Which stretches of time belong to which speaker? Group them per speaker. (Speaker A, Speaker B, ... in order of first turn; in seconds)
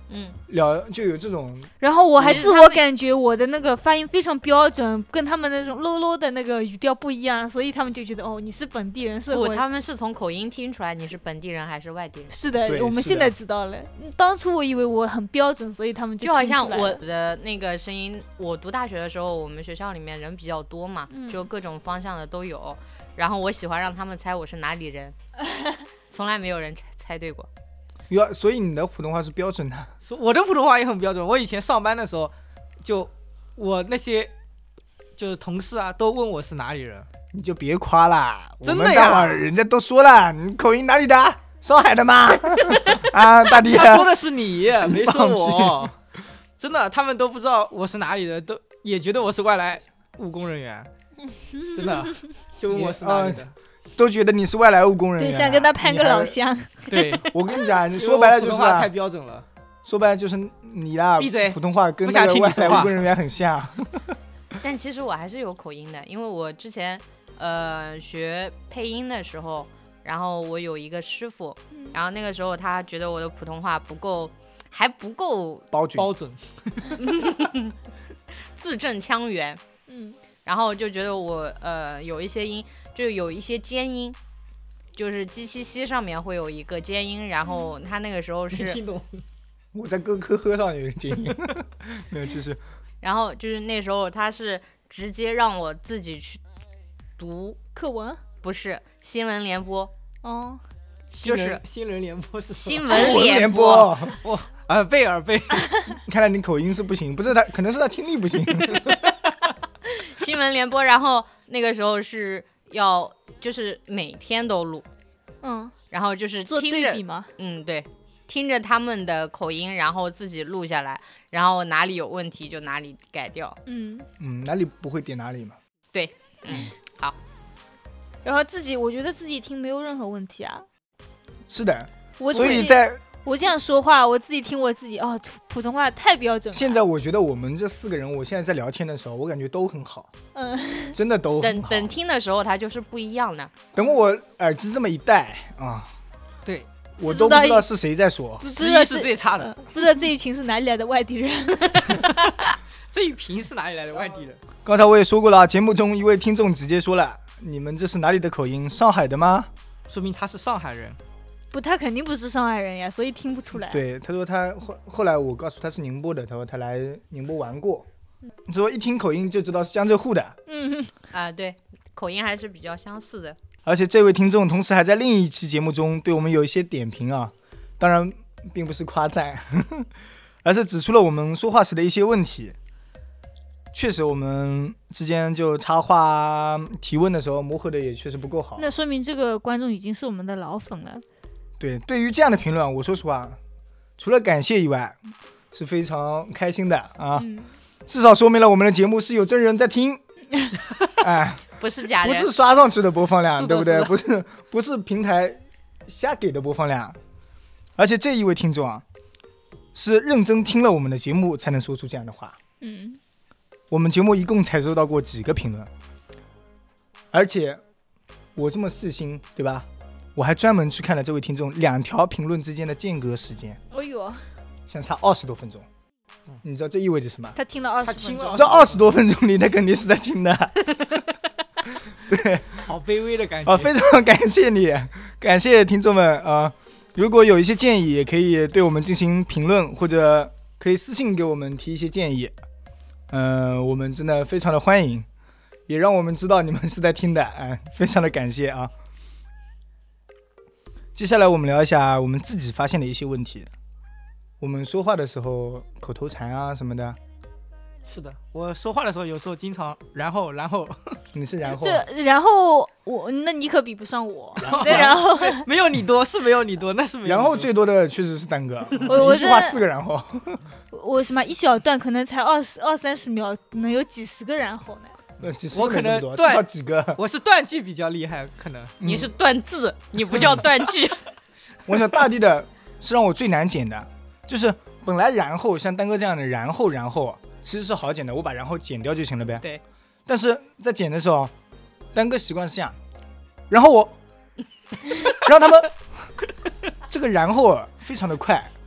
Speaker A: 0.1-0.4, 2.2-2.8, 9.3-12.3, 16.2-25.1, 26.1-27.5, 64.6-75.7, 77.0-77.8, 78.5-79.6, 80.4-84.2, 85.0-88.8, 93.0-96.4, 97.2-97.6, 98.4-99.9, 101.2-101.6, 102.5-104.0, 109.9-114.8, 115.9-123.6, 125.9-127.2, 141.4-143.5, 171.1-173.4, 201.6-202.3, 278.8-281.0
Speaker B: 0.5-1.7, 12.7-13.3, 28.1-29.9, 37.3-44.2, 44.7-45.9, 52.7-56.4, 57.2-58.9, 59.8-64.2, 75.7-76.1, 89.7-92.6, 102.9-104.2, 106.0-108.9, 124.2-125.6, 131.5-133.0, 136.5-140.1, 140.9-141.9, 143.7-145.9, 147.0-148.5, 154.6-159.5, 163.6-167.9, 168.4-170.4, 173.6-179.9, 180.4-182.6, 183.7-188.7, 191.6-193.4, 194.0-195.0, 195.5-197.3, 197.9-200.0, 201.0-207.0, 207.8-208.8, 209.7-212.4, 213.7-215.7, 217.1-217.6, 218.3-223.6, 224.7-225.7, 226.4-227.4, 228.3-231.0, 231.8-232.7, 233.4-242.3, 243.1-245.1, 245.7-248.7, 250.9-253.5, 254.4-257.0, 261.1-261.8, 264.4-265.0, 267.0-270.4, 275.2-277.0, 278.8-279.1, 281.7-289.4, 290.1-291.3, 291.9-292.8, 293.5-293.9, 295.1-296.1, 296.9-298.5
Speaker C: 1.8-9.6, 12.3-17.0, 21.1-21.5, 51.6-51.9, 55.2-57.0, 79.9-80.2, 87.5-87.7, 97.7-98.2, 100.2-100.6, 115.4-115.7, 116.5-117.3, 123.7-124.1, 128.2-130.6, 132.2-136.8, 140.3-141.0, 147.0-147.7, 148.4-152.2, 161.5-163.8, 170.5-170.9, 188.6-191.0, 197.2-197.5, 212.6-213.0, 223.7-224.2, 227.3-228.5, 261.4-265.5, 268.8-269.6, 270.7-274.9
Speaker D: 30.0-34.3, 35.1-37.1, 38.6-39.4, 43.6-45.9, 46.6-50.9, 51.7-53.5, 56.9-57.3, 57.9-59.5, 61.2-63.0, 76.0-77.0, 88.5-89.2, 101.1-105.7, 148.4-149.6, 152.9-154.4, 159.9-161.0, 203.3-203.9, 227.8-228.9, 232.6-233.7, 257.9-261.0, 264.4-267.5, 275.5-278.8